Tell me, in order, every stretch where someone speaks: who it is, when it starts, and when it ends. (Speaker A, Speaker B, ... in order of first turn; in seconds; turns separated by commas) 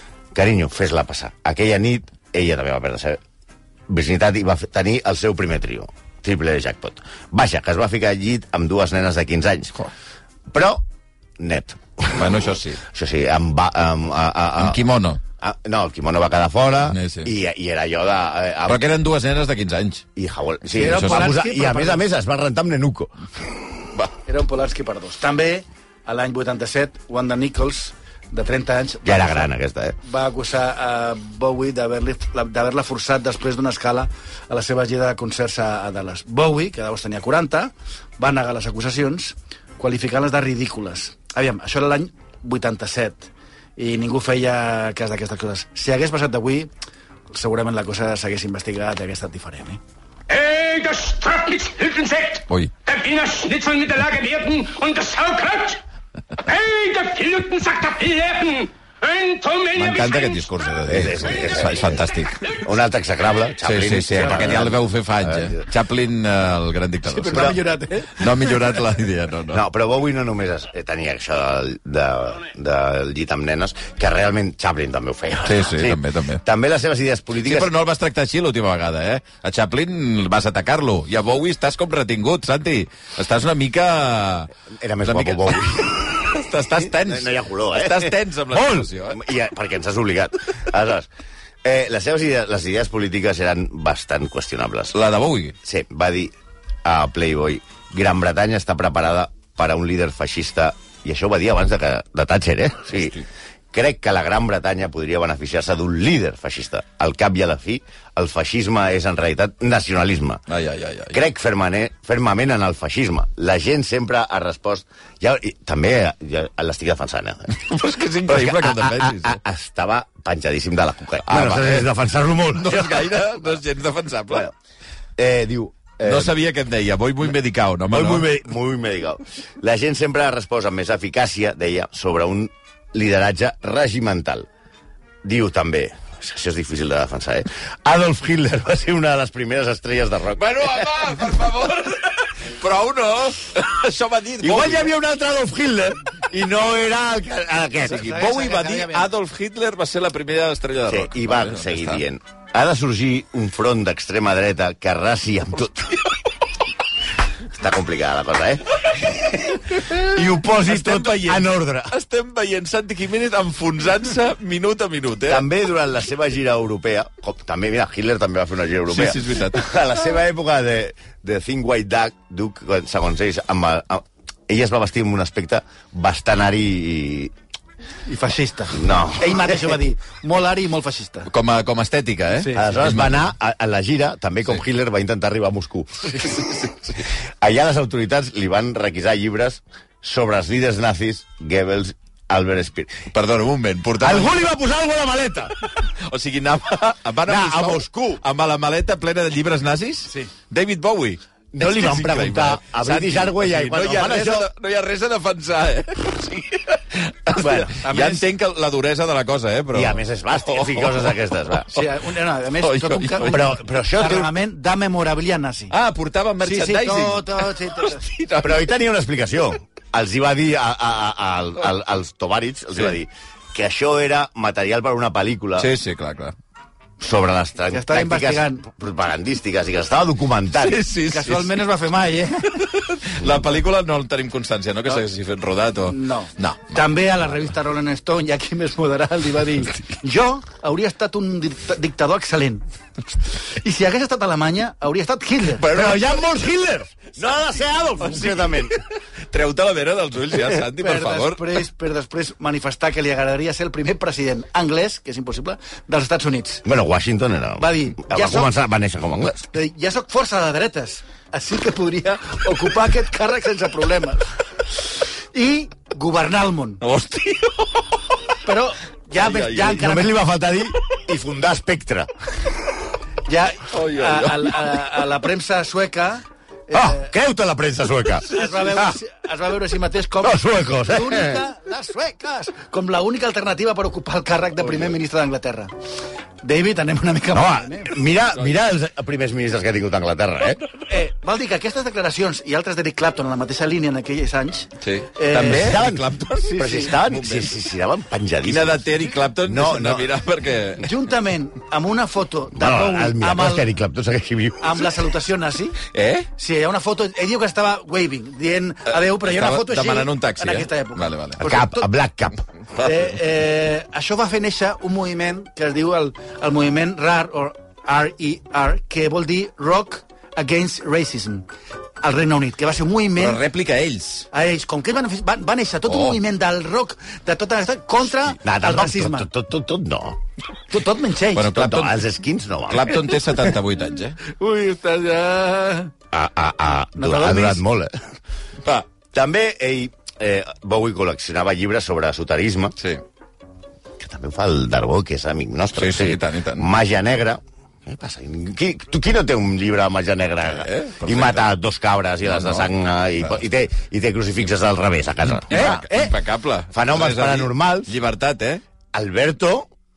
Speaker A: 0.3-3.2, Speaker A: 3.9-9.9, Speaker A: 10.5-10.8, Speaker A: 11.4-14.8, Speaker B: 12.1-12.8, Speaker B: 14.6-15.2, Speaker A: 15.4-18.9, Speaker B: 16.9-17.3, Speaker B: 18.6-20.0, Speaker A: 20.2-23.5, Speaker C: 20.7-22.1, Speaker B: 20.8-21.3, Speaker C: 24.2-29.5, Speaker A: 29.0-30.0, Speaker C: 30.0-46.7, Speaker C: 47.3-49.8, Speaker D: 50.3-55.8, Speaker D: 56.5-60.5, Speaker B: 59.8-62.5, Speaker A: 60.9-62.0, Speaker A: 62.6-65.6, Speaker B: 63.6-67.6, Speaker C: 64.2-64.5, Speaker C: 67.1-68.8, Speaker A: 67.3-67.6, Speaker B: 68.1-69.6, Speaker A: 69.5-77.7, Speaker B: 75.4-76.4, Speaker B: 77.4-84.5, Speaker A: 84.7-91.1, Speaker B: 85.0-89.2, Speaker A: 91.6-95.0, Speaker B: 94.9-95.5, Speaker A: 95.6-96.3, Speaker A: 96.8-103.2, Speaker B: 102.9-103.2, Speaker A: 103.7-110.4, Speaker B: 110.5-111.2, Speaker A: 111.1-117.7, Speaker B: 117.6-119.4, Speaker A: 118.3-123.6, Speaker B: 121.3-121.9, Speaker B: 122.5-124.5, Speaker A: 125.2-126.3, Speaker B: 126.0-128.3, Speaker A: 127.9-134.5, Speaker A: 135.2-140.9, Speaker B: 140.3-144.9, Speaker A: 144.4-148.2, Speaker C: 147.8-149.1, Speaker B: 147.9-152.0, Speaker A: 150.8-156.0, Speaker A: 157.5-161.9, Speaker B: 159.4-165.5, Speaker A: 165.3-177.3, Speaker B: 168.9-169.7, Speaker C: 178.1-181.3, Speaker A: 178.7-179.8, Speaker B: 181.3-183.2, Speaker C: 182.3-182.7, Speaker A: 182.5-193.1, Speaker B: 193.1-194.5, Speaker A: 194.0-195.5, Speaker B: 195.8-211.8, Speaker A: 197.2-198.2, Speaker A: 201.5-204.5, Speaker A: 207.4-207.7, Speaker C: 207.4-208.3, Speaker A: 209.7-211.7, Speaker C: 211.7-215.7, Speaker B: 212.6-213.4, Speaker A: 213.2-214.3, Speaker B: 215.7-218.7, Speaker C: 216.4-218.0, Speaker A: 218.4-225.7, Speaker B: 225.6-226.3, Speaker A: 227.0-230.8, Speaker C: 227.7-228.7, Speaker B: 230.6-231.6, Speaker C: 231.1-232.7, Speaker B: 232.6-236.7, Speaker C: 235.9-242.6, Speaker C: 243.3-245.7, Speaker B: 245.6-246.2, Speaker A: 245.6-248.8, Speaker B: 248.1-248.8, Speaker B: 249.3-251.6, Speaker C: 250.7-256.6, Speaker A: 256.6-259.5, Speaker C: 257.6-258.5, Speaker C: 259.5-264.3, Speaker C: 265.3-266.8, Speaker B: 266.8-267.9, Speaker C: 268.4-270.1, Speaker B: 269.2-269.8, Speaker A: 269.7-272.5, Speaker C: 273.3-277.1, Speaker B: 273.7-274.9, Speaker A: 276.7-278.9, Speaker C: 278.3-285.7, Speaker B: 278.3-278.6, Speaker A: 280.2-281.4, Speaker C: 286.4-288.0, Speaker A: 287.3-290.6, Speaker C: 290.9-295.8, Speaker B: 294.8-297.5, Speaker A: 295.3-298.9, Speaker C: 296.4-296.9, Speaker B: 298.4-301.0, Speaker A: 299.4-300.1, Speaker C: 300.8-303.7, Speaker A: 302.5-304.9, Speaker C: 304.6-305.8, Speaker B: 305.9-306.3, Speaker C: 306.4-311.9, Speaker B: 309.0-311.5, Speaker A: 311.4-312.4, Speaker C: 312.8-321.5, Speaker C: 322.0-323.4, Speaker B: 323.2-324.3, Speaker C: 324.3-329.3, Speaker B: 325.9-326.2, Speaker A: 328.4-330.2, Speaker C: 330.7-331.6, Speaker B: 331.3-332.0, Speaker A: 331.5-333.0, Speaker B: 332.7-334.2, Speaker C: 334.2-335.9, Speaker A: 336.1-337.9, Speaker C: 337.0-337.6, Speaker A: 339.1-342.7, Speaker A: 344.0-355.9, Speaker B: 345.8-346.7, Speaker B: 350.5-351.4, Speaker B: 352.2-352.7, Speaker B: 355.3-358.6, Speaker C: 355.5-356.1, Speaker A: 356.7-357.9, Speaker A: 358.9-359.7